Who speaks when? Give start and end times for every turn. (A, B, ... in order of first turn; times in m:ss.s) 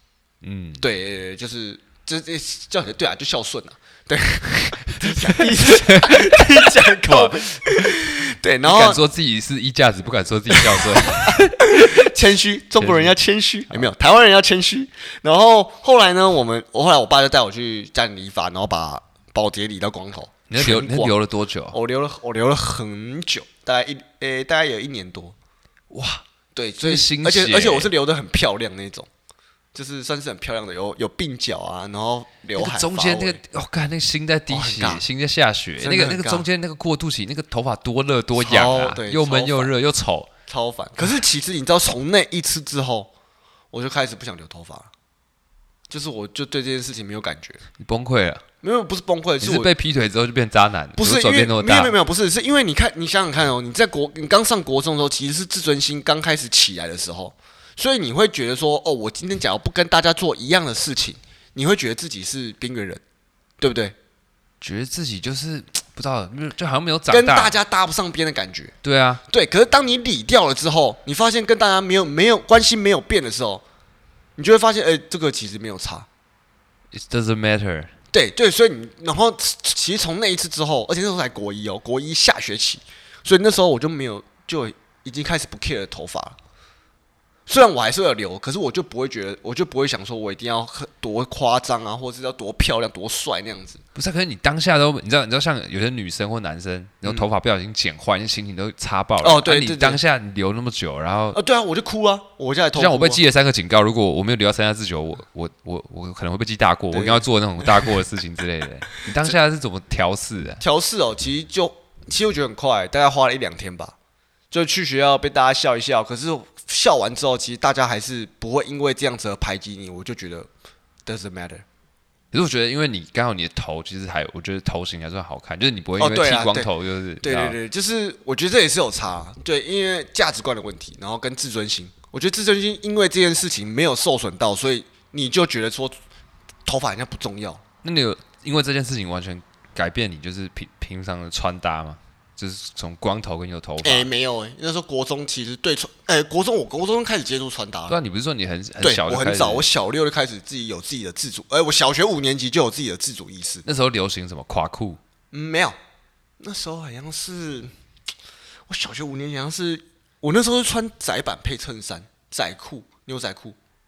0:00.4-0:00.8 A
0:00.8-0:09.0 B
0:05.1-0:07.9 A
0:08.6-0:12.1 A
0:10.5-0:21.1 B
0:12.8-0:13.1 A
0:20.5-0:21.8 A
0:21.7-0:25.4 B
0:25.9-0:26.2 A
0:26.5-0:29.1 B
0:26.8-0:27.9 A
0:29.7-0:33.4 B
0:32.6-0:40.3 A
0:34.5-0:35.0 B
0:35.8-0:36.4 B
0:38.4-0:39.7 B
0:40.5-0:43.1 B
0:43.7-0:44.9 B
0:45.9-0:47.6 B
0:47.8-0:48.4 A
0:48.6-0:49.7 B
0:49.4-0:52.0 A
0:51.0-1:03.0 B
1:03.6-1:03.9 B
1:04.6-1:07.6 A
1:07.1-1:08.7 B
1:08.8-1:09.2 A
1:09.3-1:13.6 B
1:14.4-1:16.1 B
1:16.9-1:17.9 A
1:18.1-1:26.4 B
1:27.5-1:33.8 B
1:33.9-1:41.4 A
1:39.2-1:40.0 B
1:41.3-1:43.2 B
1:42.8-1:50.6 A
1:46.9-1:47.9 B
1:50.6-1:53.9 B
1:54.5-2:00.5 B
2:01.0-2:01.6 B
2:02.3-2:07.6 A
2:06.0-2:06.7 B
2:07.2-2:15.9 B
2:16.6-2:17.6 B
2:17.8-2:24.1 A
2:23.8-2:28.0 B
2:27.9-2:29.6 A
2:28.8-2:33.6 B
2:33.6-2:35.0 A
2:35.3-2:35.8 B
2:36.4-2:37.7 B
2:38.7-2:43.6 B